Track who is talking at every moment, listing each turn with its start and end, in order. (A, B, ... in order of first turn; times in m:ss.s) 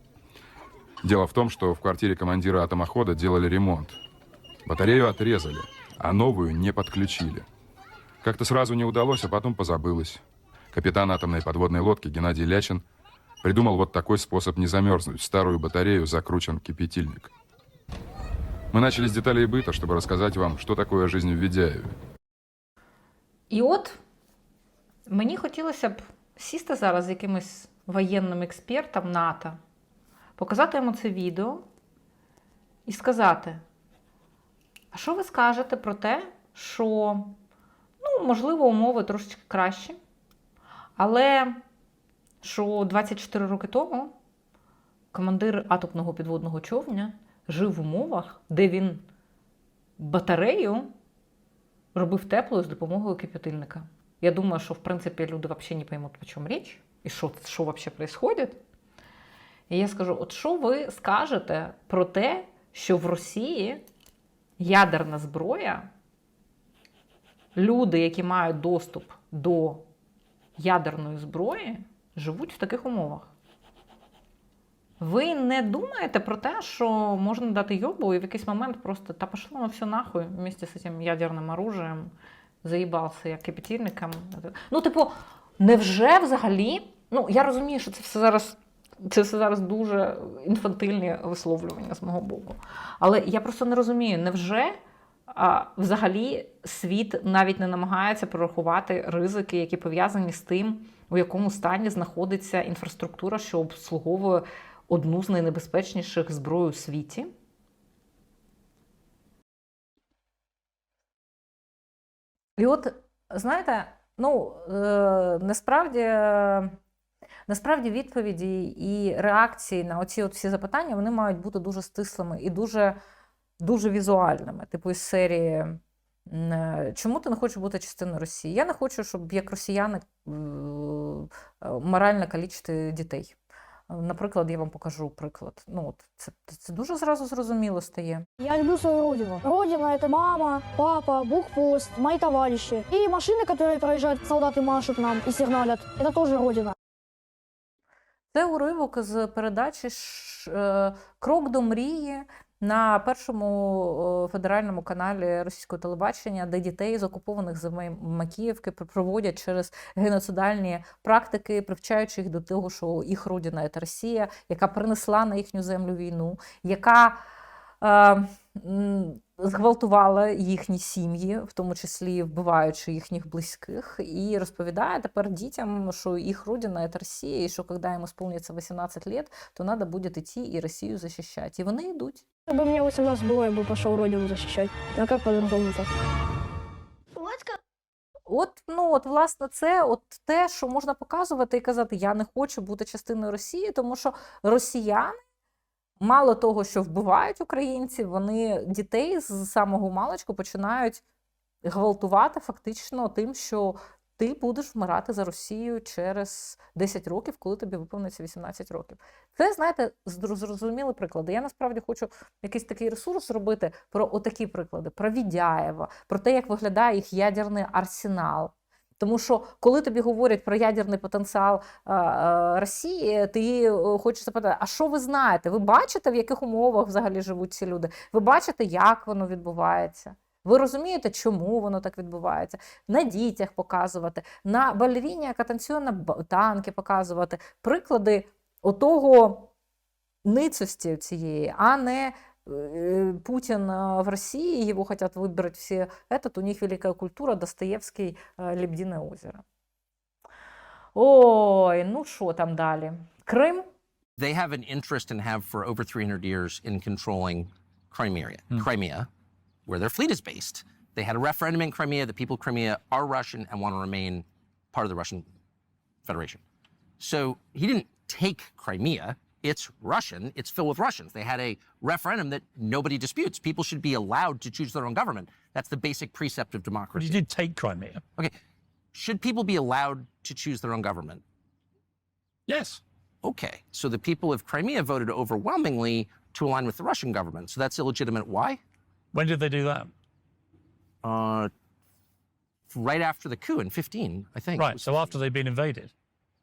0:01.0-0:04.0 A
0:04.6-0:07.4 A
0:08.2-0:12.8 A
0:13.4-0:17.3 A
0:18.7-0:22.0 A
0:23.5-0:24.0 B
0:25.1-0:29.6 B
0:30.4-0:31.6 B
0:32.8-0:33.6 B
0:34.9-0:37.4 B
0:38.0-0:40.0 B
0:41.0-0:41.6 B
0:42.4-0:44.1 B
0:45.1-0:49.0 B
0:50.0-0:50.9 B
0:51.9-0:58.6 B
0:59.7-1:03.8 B
1:04.6-1:05.9 B
1:07.5-1:09.8 B
1:10.6-1:13.3 B
1:15.0-1:34.8 B
1:35.3-1:47.3 B
1:52.6-1:56.8 B
1:57.5-2:03.0 B
2:03.6-2:13.4 B
2:13.9-2:18.2 B
2:18.4-2:26.7 C
2:28.3-2:47.2 B
2:47.8-3:02.2 B
3:02.5-3:05.9 C
3:07.2-3:07.5 C
3:08.3-3:15.2 B
3:16.0-3:21.0 B
3:21.6-3:59.5 B
4:00.2-4:09.4 B
4:10.9-4:13.6 B
4:14.2-4:19.1 D
4:19.7-4:25.3 D
4:26.0-4:26.4 D
4:27.0-4:37.2 D
4:37.0-4:38.0 E
4:38.9-4:41.2 D
4:42.5-4:42.8 E
4:43.2-4:48.6 D
4:49.1-4:49.9 E
4:51.0-4:51.5 D
4:52.7-4:55.1 D
4:54.6-4:55.9 E